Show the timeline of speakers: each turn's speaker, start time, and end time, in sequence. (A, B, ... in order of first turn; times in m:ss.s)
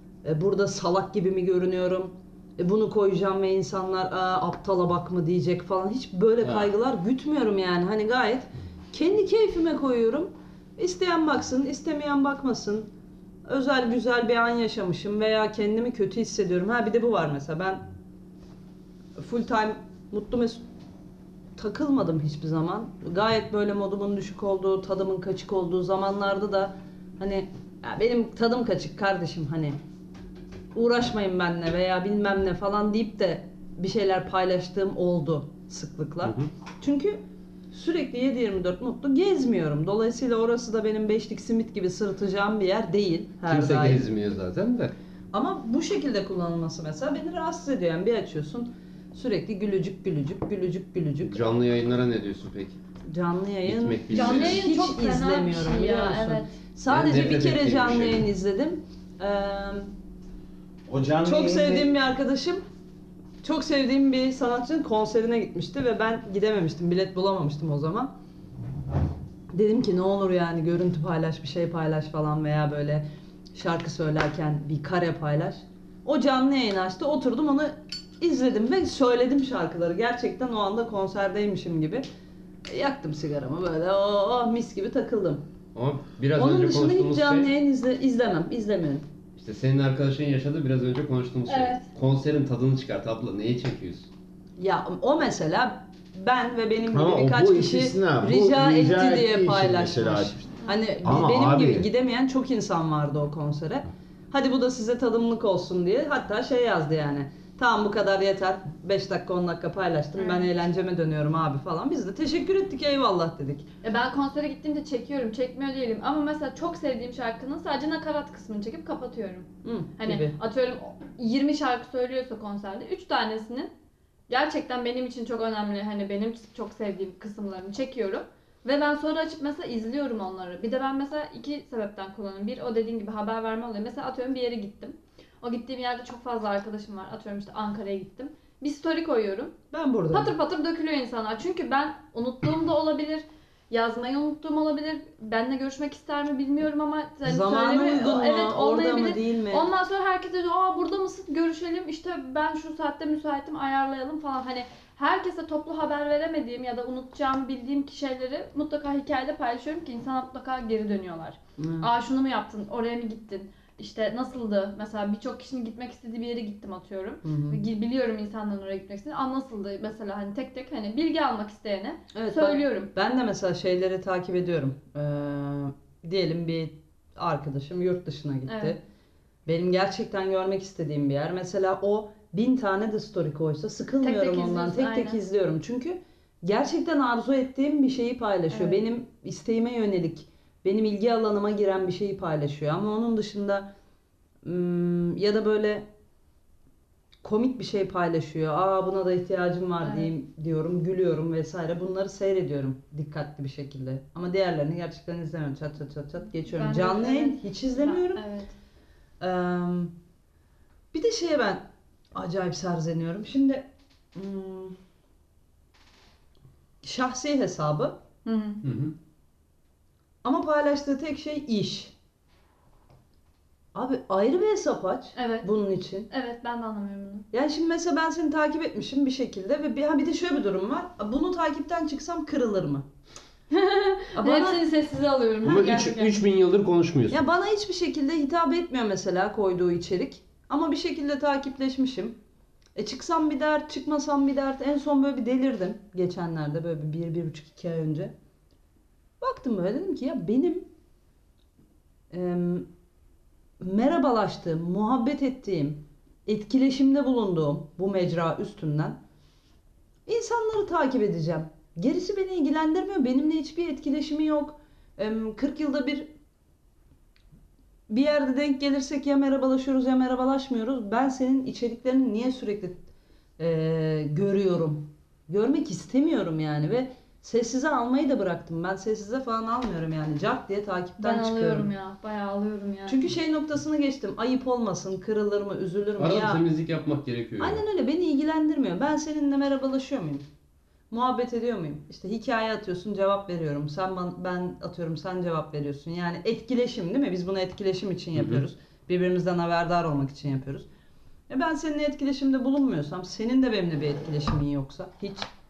0:00.2-0:12.9 A
0:13.4-0:17.8 A
0:19.2-0:20.6 A
0:21.6-0:29.8 A
0:30.7-0:44.0 A
0:43.5-0:44.9 B
0:45.3-0:51.6 A
0:51.2-0:52.8 B
0:53.0-0:59.9 A
0:53.6-0:54.6 B
0:54.1-0:56.5 C
0:56.9-0:58.3 B
1:00.9-1:01.9 D
1:01.2-1:02.6 A
1:03.4-1:08.1 A
1:09.5-1:22.0 A
1:22.7-1:25.4 A
1:25.7-1:27.5 B
1:26.4-1:29.1 A
1:29.4-1:34.1 B
1:31.5-1:31.8 C
1:34.6-1:53.6 A
1:36.9-1:40.4 D
1:41.0-1:41.9 D
1:50.2-1:50.5 C
1:53.8-2:03.7 C
1:59.6-2:00.4 A
2:04.3-2:19.6 C
2:19.7-2:20.3 A
2:20.1-2:52.9 C
2:27.2-2:29.7 A
2:41.6-2:41.9 A
2:47.2-2:47.6 A
2:52.1-2:58.8 A
2:58.4-2:58.8 C
2:59.4-3:13.7 A
3:04.0-3:05.2 C
3:08.5-3:08.8 C
3:14.4-3:15.9 A
3:17.2-3:28.2 A
3:19.8-3:20.1 C
3:26.5-3:28.5 C
3:29.2-3:29.9 A
3:30.9-3:34.8 A
3:36.8-3:38.0 A
3:38.2-3:38.6 C
3:38.6-3:38.9 B
3:40.2-3:41.9 A
3:43.7-3:46.1 A
3:45.2-3:45.5 C
3:46.1-3:47.3 C
3:47.3-3:52.9 A
3:53.5-3:56.1 C
3:54.1-3:54.6 A
3:55.4-3:57.2 B
3:57.1-4:02.2 A
4:02.7-4:08.1 A
4:09.2-4:10.7 A
4:12.1-4:12.7 A
4:13.6-4:19.0 A
4:20.1-4:26.1 A
4:27.9-4:32.8 A
4:33.4-4:41.7 A
4:41.0-4:43.0 C
4:42.8-4:46.4 A
4:46.0-4:47.6 B
4:47.4-4:50.2 A
4:50.9-5:00.7 A
4:58.1-4:58.4 B
5:01.3-5:05.3 A